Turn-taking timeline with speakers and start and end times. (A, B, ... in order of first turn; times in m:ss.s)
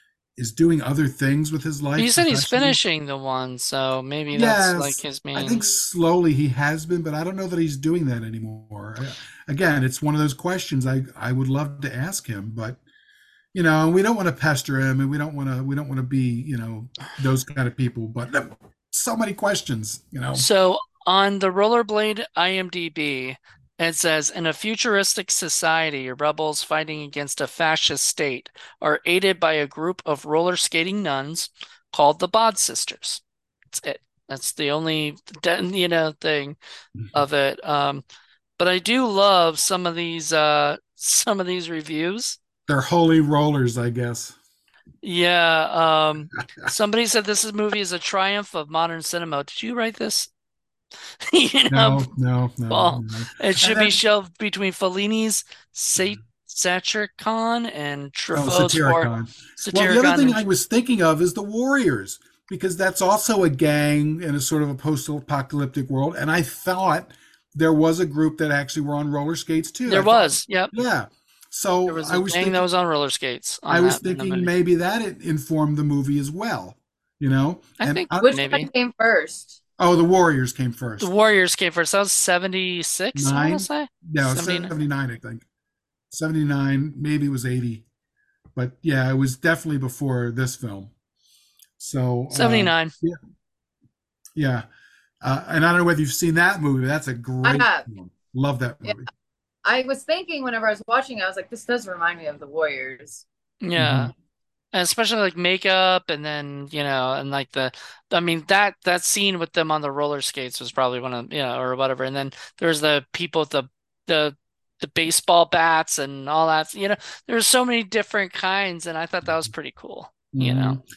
0:00.4-0:02.8 A
0:02.0-0:05.7 B
0:04.3-0:12.8 A
0:13.5-0:20.5 A
0:20.4-0:36.6 B
0:37.1-0:38.0 B
0:38.6-0:42.4 B
0:42.7-0:44.4 A
0:45.0-0:50.3 B
0:51.2-0:52.1 B
0:51.7-0:54.0 A
0:52.7-0:59.1 B
0:58.3-1:12.6 A
0:59.6-1:00.4 B
1:09.9-1:10.7 B
1:11.9-1:14.5 B
1:13.7-1:18.4 A
1:17.8-1:18.7 B
1:18.2-1:19.6 C
1:19.8-1:21.1 A
1:21.0-1:24.7 B
1:23.2-1:25.4 A
1:26.1-1:27.8 A
1:28.6-1:30.9 A
1:31.8-1:33.2 A
1:32.3-1:32.9 B
1:34.4-1:34.6 A
1:35.2-1:39.1 A
1:37.4-1:37.9 C
1:39.6-1:43.3 C
1:43.6-1:44.1 B
1:43.8-1:44.1 A
1:44.7-2:00.8 B
2:00.3-2:00.8 A